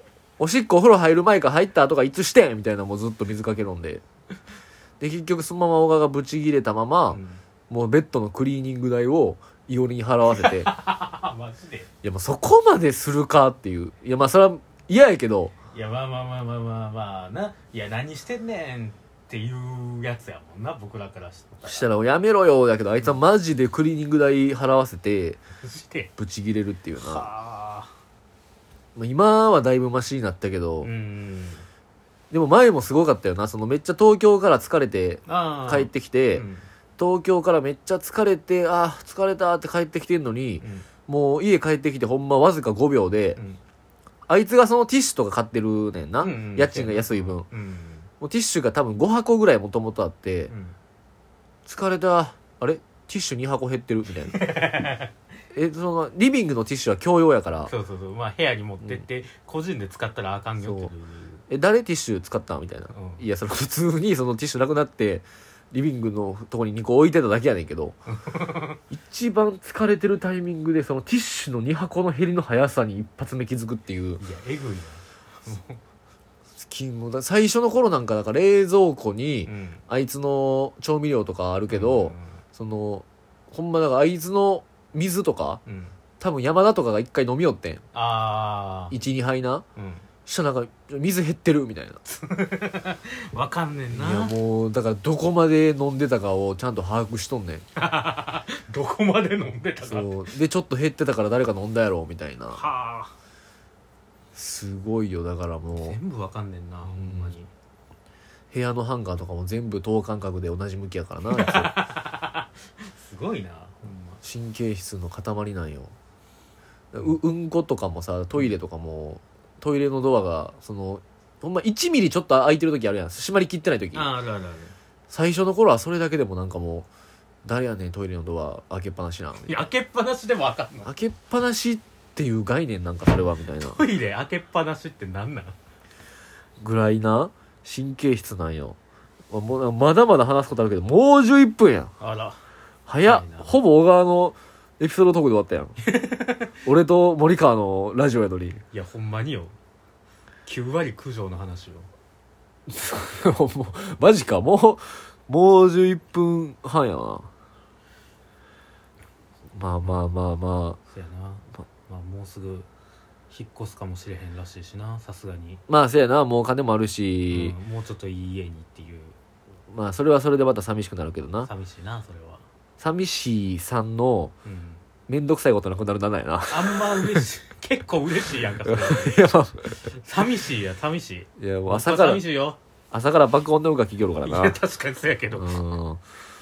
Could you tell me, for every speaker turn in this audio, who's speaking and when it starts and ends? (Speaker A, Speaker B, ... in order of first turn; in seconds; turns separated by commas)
Speaker A: 0.4-4.0, Speaker A: 5.0-10.7, Speaker B: 7.1-7.4, Speaker B: 10.3-11.9, Speaker A: 12.0-15.5, Speaker B: 15.7-21.9, Speaker A: 21.6-25.4, Speaker B: 25.6-26.1, Speaker A: 26.1-27.3, Speaker B: 26.9-27.9, Speaker A: 28.9-30.9, Speaker B: 30.8-31.6, Speaker A: 32.3-36.4, Speaker B: 35.2-36.6, Speaker A: 37.0-43.4, Speaker B: 40.6-40.9, Speaker A: 44.3-47.5, Speaker B: 46.2-48.1, Speaker A: 48.2-50.5, Speaker B: 50.5-50.8, Speaker A: 51.6-54.4, Speaker B: 54.2-55.1, Speaker A: 55.5-57.7, Speaker B: 57.6-61.4, Speaker A: 60.6-60.9, Speaker A: 61.5-68.0, Speaker B: 62.9-63.2, Speaker B: 68.1-68.8, Speaker A: 68.9-74.2, Speaker B: 74.2-75.8, Speaker A: 76.6-87.8, Speaker B: 79.4-79.8, Speaker B: 81.7-82.4, Speaker B: 85.7-86.0, Speaker B: 87.9-89.0, Speaker A: 88.9-89.6, Speaker B: 89.8-90.1, Speaker A: 90.2-92.0, Speaker B: 92.0-94.4, Speaker A: 93.9-97.6, Speaker B: 97.7-100.3, Speaker A: 99.8-102.6, Speaker B: 102.5-103.1, Speaker A: 104.3-106.0, Speaker B: 105.8-107.5, Speaker A: 106.8-107.3, Speaker A: 108.5-111.8, Speaker B: 111.2-114.2, Speaker A: 114.2-115.9, Speaker A: 116.9-124.1, Speaker B: 123.9-124.7, Speaker A: 125.1-126.9, Speaker A: 127.4-129.6, Speaker B: 129.4-130.9, Speaker A: 130.8-133.8, Speaker B: 133.6-135.5, Speaker A: 136.6-138.8, Speaker A: 139.3-141.9, Speaker B: 142.0-142.4, Speaker A: 142.9-145.8, Speaker B: 143.0-143.6, Speaker B: 145.8-146.6, Speaker A: 146.6-148.6, Speaker B: 148.7-149.5, Speaker B: 150.4-151.9, Speaker A: 152.7-157.3, Speaker A: 159.5-160.8, Speaker B: 159.8-160.1, Speaker B: 160.9-162.7, Speaker B: 163.3-165.6, Speaker A: 165.7-167.6, Speaker B: 167.3-169.2, Speaker A: 169.7-171.5, Speaker B: 171.4-172.4, Speaker A: 172.8-174.3, Speaker B: 174.4-174.8, Speaker A: 175.0-177.2, Speaker B: 176.5-182.6, Speaker A: 178.6-179.8, Speaker A: 181.4-182.2, Speaker A: 182.9-184.6, Speaker B: 184.2-185.6, Speaker A: 185.3-186.0